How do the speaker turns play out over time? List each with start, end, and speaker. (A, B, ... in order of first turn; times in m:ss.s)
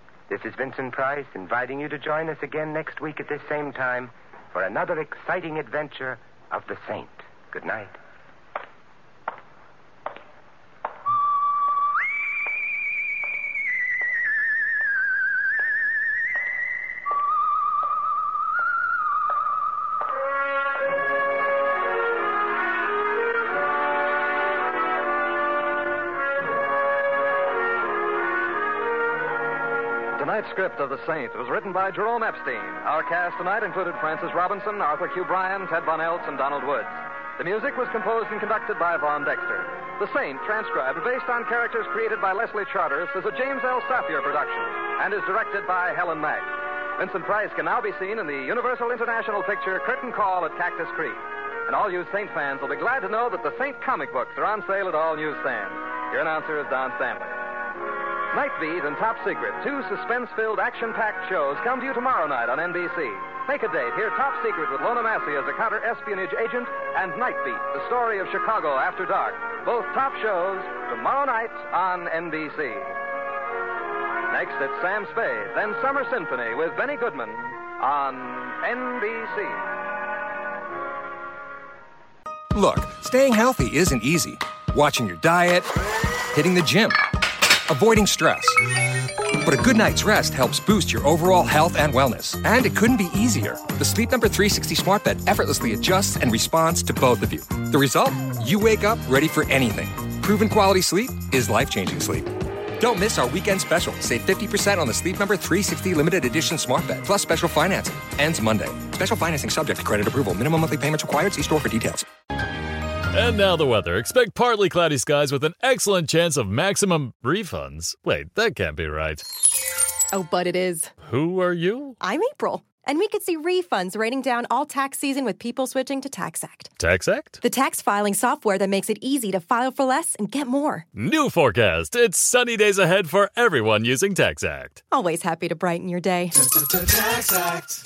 0:00.3-0:08.0 A
0:30.2-0:57.4 B
0:58.3-1:13.0 B
1:14.3-1:19.6 B
1:22.5-1:25.7 C
1:26.3-1:27.1 C
1:27.7-1:28.6 C
1:29.4-1:52.1 C
1:53.1-1:59.2 D
2:00.1-2:01.0 E
2:01.0-2:02.0 D
2:02.0-2:06.8 E
2:06.8-2:07.4 D
2:07.4-2:10.9 E
2:11.0-2:14.8 D
2:14.9-2:17.6 E